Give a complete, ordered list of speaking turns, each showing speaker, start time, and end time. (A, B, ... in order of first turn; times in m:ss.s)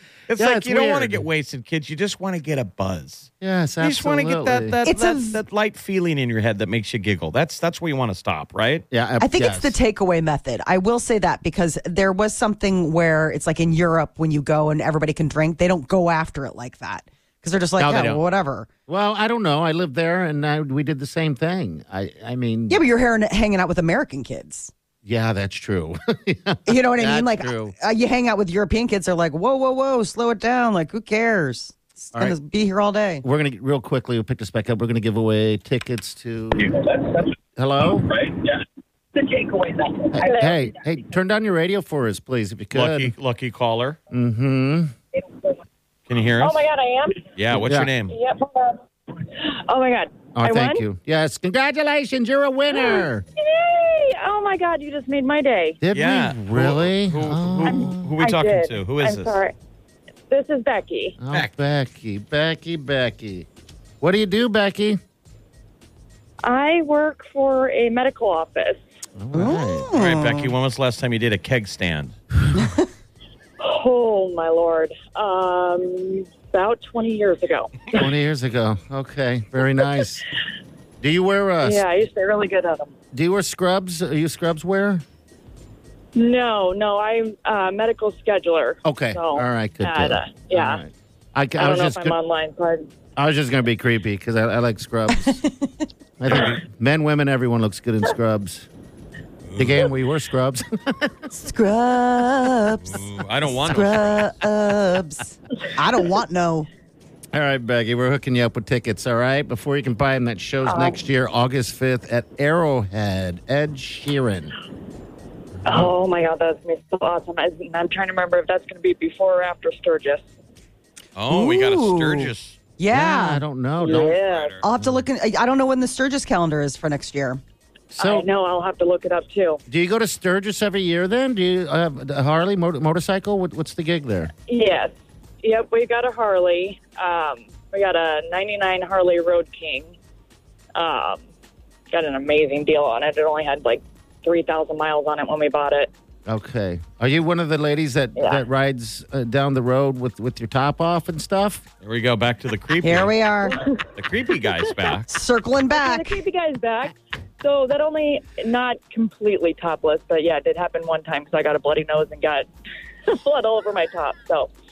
0:00.3-0:08.8 A
0:00.4-0:01.2 B
0:03.4-0:04.8 B
0:04.8-0:05.4 C
0:08.9-0:09.7 B
0:09.2-0:18.7 C
0:17.8-0:18.2 B
0:18.9-0:22.8 B
0:22.7-0:24.7 C
0:25.0-0:27.7 B
0:26.6-0:33.2 C
0:33.2-0:36.8 B
0:37.6-0:38.1 B
0:39.2-0:40.8 D
0:40.1-0:43.1 B
0:42.7-0:44.0 A
0:44.1-0:44.9 B
0:45.2-0:45.5 D
0:46.1-0:46.6 A
0:46.4-0:47.4 D
0:47.4-0:48.1 A
0:47.5-0:47.9 B
0:48.1-0:50.8 D
0:50.3-0:53.2 B
0:52.7-0:55.8 D
0:55.8-0:58.1 B
0:55.9-0:59.4 A
0:57.6-0:59.5 D
1:00.3-1:01.2 D
1:01.2-1:03.5 B
1:04.0-1:05.0 B
1:06.4-1:08.8 D
1:09.2-1:09.9 B
1:09.3-1:10.5 C
1:09.9-1:12.2 A
1:12.5-1:12.8 C
1:13.6-1:18.0 D
1:17.9-1:20.2 B
1:21.0-1:21.8 B
1:21.6-1:22.9 D
1:23.1-1:25.0 B
1:26.2-1:30.8 D
1:28.8-1:32.2 B
1:31.6-1:32.9 D
1:33.2-1:35.4 B
1:35.2-1:35.7 C
1:36.2-1:38.7 B
1:36.3-1:36.5 A
1:39.4-1:39.9 A
1:39.6-1:41.2 B
1:41.3-1:43.0 C
1:42.8-1:44.3 A
1:43.6-1:46.7 C
1:47.3-1:54.5 B
1:50.6-1:51.0 D
1:55.6-2:00.3 D
2:01.2-2:02.6 A
2:01.3-2:03.4 C
2:02.9-2:04.2 B
2:03.8-2:04.5 D
2:04.0-2:04.6 A
2:04.6-2:07.4 C
2:04.8-2:05.0 B
2:08.0-2:09.6 D
2:08.0-2:08.3 B
2:09.7-2:14.3 B
2:14.5-2:19.9 D
2:20.8-2:21.2 D
2:21.9-2:25.9 D
2:26.3-2:31.6 B
2:28.2-2:28.4 D
2:31.8-2:33.1 A
2:32.8-2:33.6 C
2:33.9-2:35.1 A
2:35.1-2:36.2 C
2:35.7-2:42.5 D
2:43.1-2:44.5 D